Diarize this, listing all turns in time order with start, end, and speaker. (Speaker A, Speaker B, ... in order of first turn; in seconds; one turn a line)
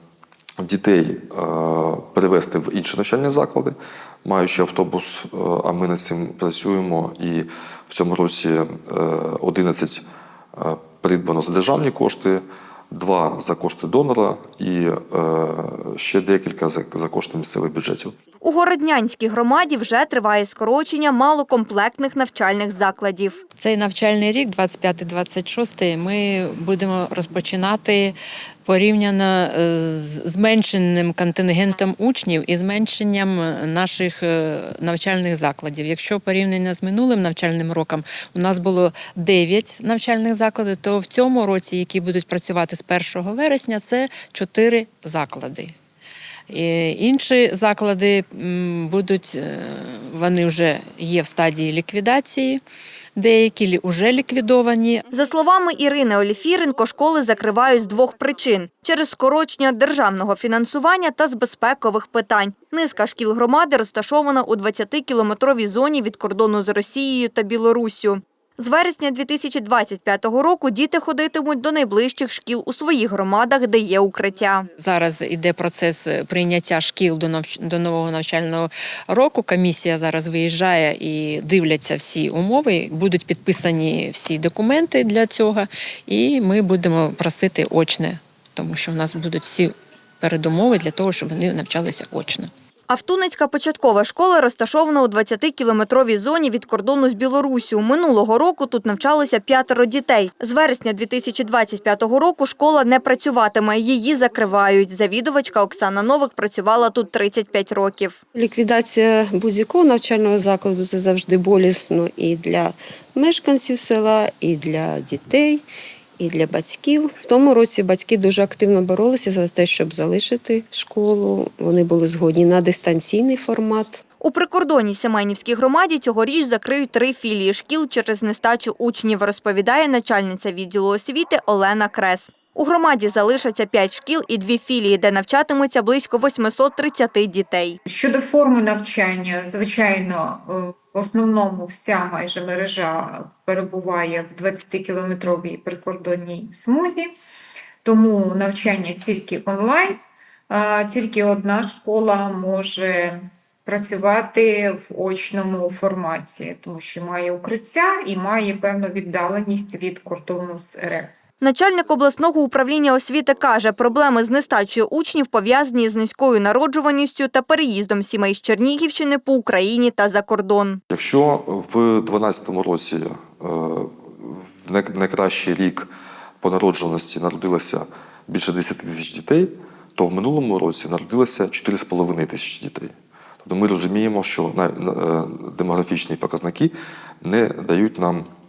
Speaker A: 0.6-18.1
Speaker B: 18.4-23.4
Speaker C: 23.6-45.7
Speaker C: 46.5-52.6
Speaker C: 53.2-55.0
Speaker B: 55.1-74.7
Speaker C: 74.8-92.5
Speaker B: 92.9-108.2
Speaker D: 108.3-115.6
Speaker D: 116.2-124.0
Speaker B: 124.2-137.8
Speaker E: 137.8-147.1
Speaker E: 147.8-150.0
Speaker E: 150.5-161.1
Speaker B: 161.4-170.8
Speaker A: 170.9-175.9
Speaker A: 176.4-188.3